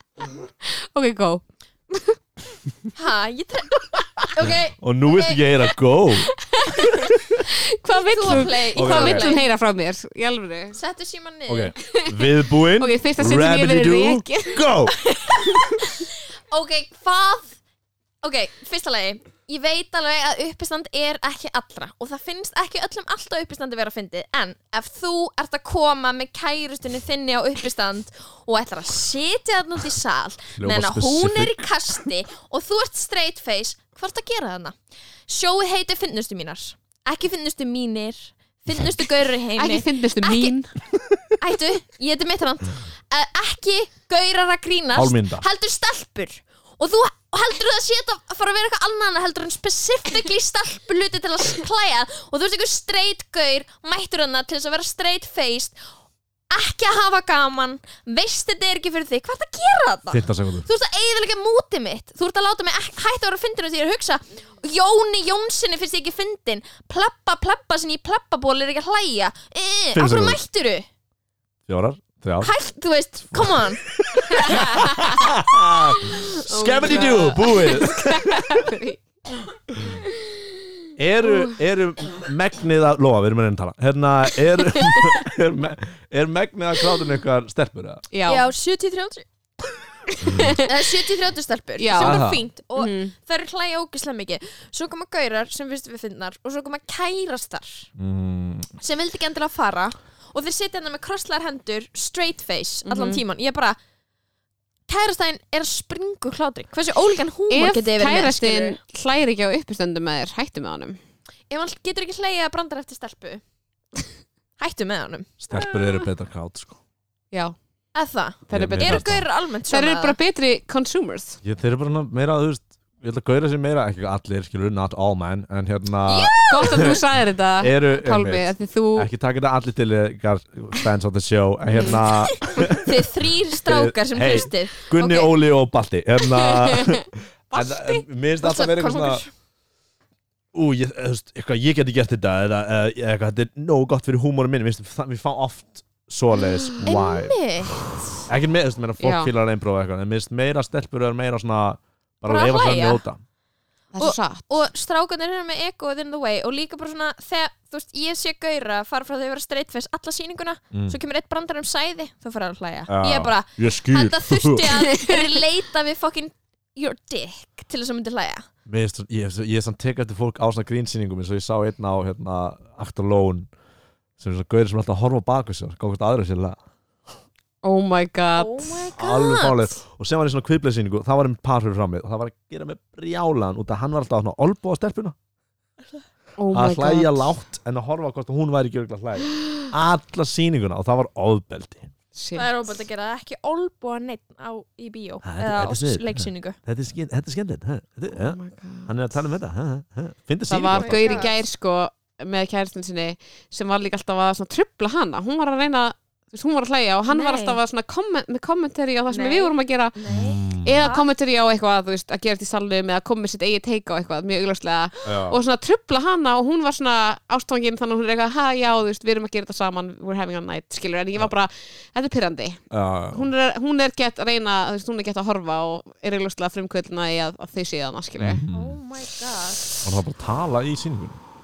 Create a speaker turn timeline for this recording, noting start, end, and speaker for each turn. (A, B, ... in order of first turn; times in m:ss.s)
0:00.6-0:01.4 A
0:02.9-0:05.4 B
0:04.4-0:06.3 C
0:06.5-0:10.8 A
0:07.8-0:09.4 B
0:08.3-0:09.3 C
0:10.7-0:11.8 B
0:11.5-0:15.6 C
0:12.2-0:14.6 A
0:15.8-0:17.6 B
0:18.2-0:40.6 B
0:30.6-0:31.6 C
0:39.6-0:40.7 A
0:41.3-0:55.8 B
0:44.9-0:45.4 C
0:56.5-1:10.9 B
1:00.1-1:00.6 C
1:09.9-1:10.4 C
1:11.7-1:12.5 C
1:12.4-1:13.8 B
1:13.3-1:18.7 C
1:16.5-1:19.0 A
1:16.8-1:17.3 B
1:19.7-1:20.0 C
1:21.0-1:28.0 C
1:24.7-1:25.1 A
1:28.1-1:28.5 A
1:28.3-1:29.3 B
1:30.2-1:30.7 A
1:30.6-1:37.9 B
1:31.8-1:33.1 A
1:32.0-1:32.4 C
1:38.0-1:38.7 C
1:38.8-1:43.8 B
1:42.8-1:43.2 A
1:44.9-1:48.8 B
1:47.5-1:51.0 A
1:51.5-1:53.4 B
1:54.6-1:55.3 B
1:55.4-1:56.8 C
1:57.9-2:00.2 B
1:58.5-2:01.4 A
1:58.5-1:59.2 C
2:01.4-2:06.9 C
2:06.1-2:07.0 B
2:06.5-2:09.1 A
2:07.6-2:19.2 C
2:11.7-2:12.0 A
2:11.8-2:15.3 B
2:16.6-2:16.9 A
2:17.5-2:18.0 A
2:18.4-2:19.3 B
2:20.5-2:27.4 C
2:26.8-2:28.1 B
2:28.3-2:33.2 C
2:29.0-2:29.3 A
2:32.3-2:33.0 B
2:33.9-2:34.5 A
2:34.0-2:48.5 B
2:40.7-2:41.0 C
2:42.9-2:44.6 C
2:44.6-2:45.2 A
2:48.6-2:53.5 C
2:54.2-2:56.6 C
2:57.6-2:58.9 A
2:58.4-2:59.8 B
2:58.9-3:05.2 C
3:06.4-3:07.3 A
3:06.5-3:11.9 C
3:12.1-3:12.5 A
3:12.3-3:16.6 B
3:15.2-3:21.3 C
3:18.1-3:19.0 A
3:20.5-3:48.4 A
3:20.7-3:21.4 B
3:27.1-3:27.6 B
3:29.1-3:31.1 B
3:30.1-3:30.9 C
3:35.0-3:35.4 C
3:42.7-3:43.3 C
3:48.2-3:48.8 C
3:48.5-3:49.8 B
3:49.8-3:51.2 C